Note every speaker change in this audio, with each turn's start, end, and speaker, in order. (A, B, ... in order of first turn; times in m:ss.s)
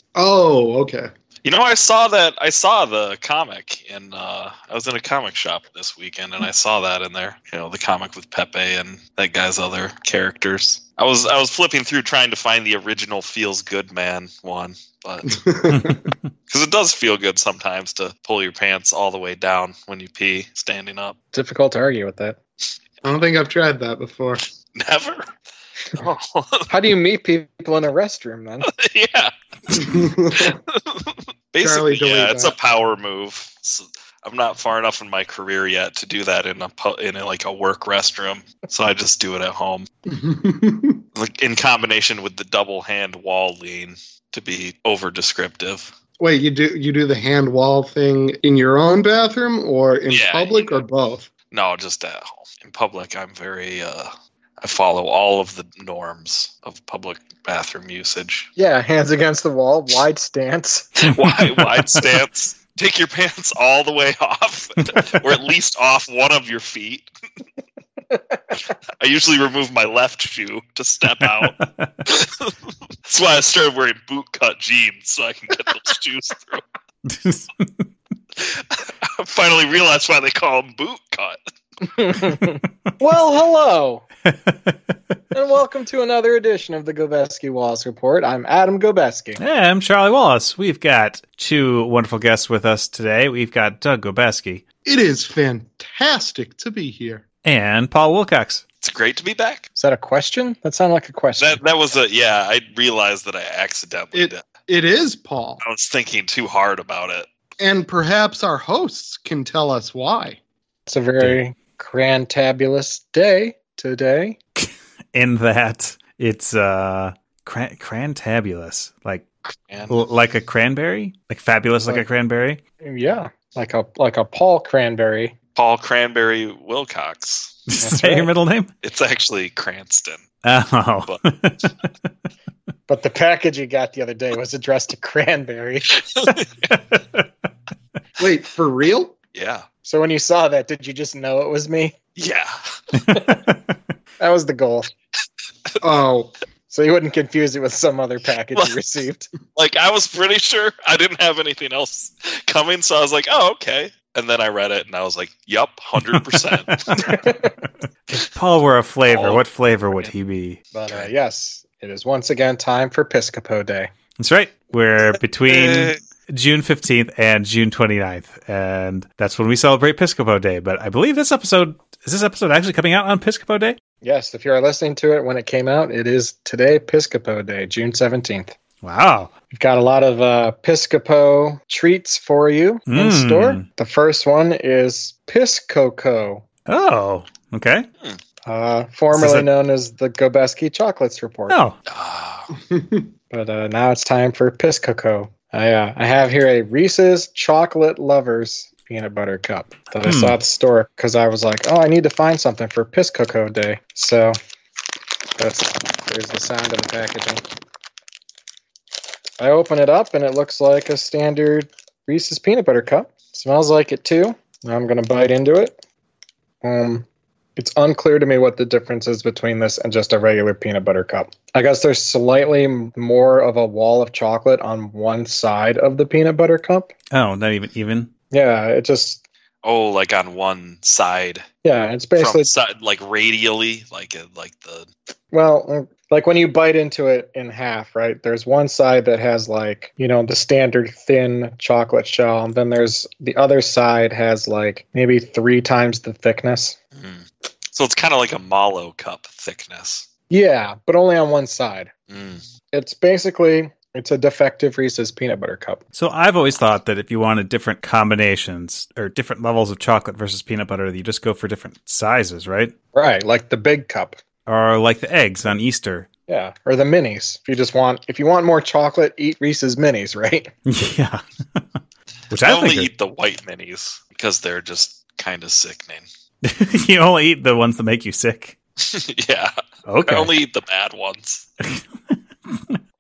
0:00.2-0:01.1 A
0:01.4-0:15.3 B
0:15.3-0:16.1 A
0:15.8-0:16.1 C
0:16.5-0:21.2 B
0:21.3-0:22.4 D
0:23.0-0:24.4 A
0:24.8-0:25.3 B
0:26.0-0:26.7 B
0:26.7-0:28.7 D
0:28.7-0:39.9 B
0:29.7-0:30.6 A
0:31.6-0:32.5 A
0:40.1-0:41.0 A
0:41.2-0:45.9 B
0:46.2-0:51.3 A
0:50.1-0:50.8 B
0:51.5-0:58.5 B
0:58.6-1:01.1 D
1:01.0-1:07.1 B
1:01.6-1:02.2 C
1:04.9-1:05.2 C
1:09.0-1:12.5 B
1:11.2-1:11.9 C
1:13.1-1:16.6 B
1:17.1-1:17.9 C
1:18.4-1:21.4 B
1:22.0-1:24.1 D
1:24.3-1:24.8 C
1:25.3-1:29.4 D
1:29.4-1:34.6 C
1:34.8-1:37.2 A
1:37.4-1:38.6 C
1:38.8-1:39.7 B
1:39.8-1:41.6 D
1:41.4-1:44.5 B
1:44.1-1:45.6 A
1:45.6-1:47.3 B
1:47.6-1:50.4 A
1:50.9-1:54.4 D
1:54.6-1:59.2 C
1:59.5-2:00.0 B
1:59.9-2:02.6 C
2:02.8-2:05.4 D
2:05.6-2:07.6 B
2:07.7-2:08.7 C
2:07.8-2:08.3 D
2:08.8-2:10.3 B
2:10.4-2:11.7 C
2:12.9-2:16.0 D
2:16.2-2:16.7 B
2:18.2-2:19.2 A
2:19.4-2:19.7 B
2:19.8-2:22.0 D
2:22.2-2:22.5 B
2:24.2-2:24.9 D
2:25.8-2:26.3 A
2:26.7-2:29.3 D
2:29.6-2:36.8 B
2:36.0-2:37.2 C
2:37.0-2:37.5 D
2:38.1-2:40.6 C
2:40.7-2:43.9 D
2:44.2-2:53.8 C
2:45.5-2:46.0 B
2:54.0-2:58.6 D
2:58.8-2:59.3 C
2:59.5-3:06.4 D
3:02.9-3:03.6 C
3:06.7-3:07.9 C
3:08.5-3:11.6 D
3:09.1-3:09.5 C
3:11.5-3:11.8 C
3:11.9-3:12.5 B
3:12.7-3:13.1 A
3:13.3-3:24.4 D
3:20.0-3:20.4 C
3:25.4-3:27.4 D
3:29.4-3:35.8 D
3:36.6-3:46.9 D
3:47.1-3:48.1 C
3:48.3-3:49.2 D
3:49.6-3:51.4 B
3:51.6-3:52.5 D
3:52.2-3:54.9 B
3:55.3-4:06.8 D
4:07.0-4:10.1 B
4:10.3-4:11.9 D
4:12.1-4:12.4 B
4:12.7-4:15.8 D
4:15.9-4:22.7 C
4:22.9-4:24.2 D
4:24.5-4:26.1 C
4:26.3-4:30.5 D
4:30.7-4:31.6 C
4:32.3-4:32.9 C
4:32.4-4:36.1 B
4:36.4-4:38.6 C
4:38.8-4:41.5 B
4:39.9-4:40.3 C
4:41.6-4:42.8 C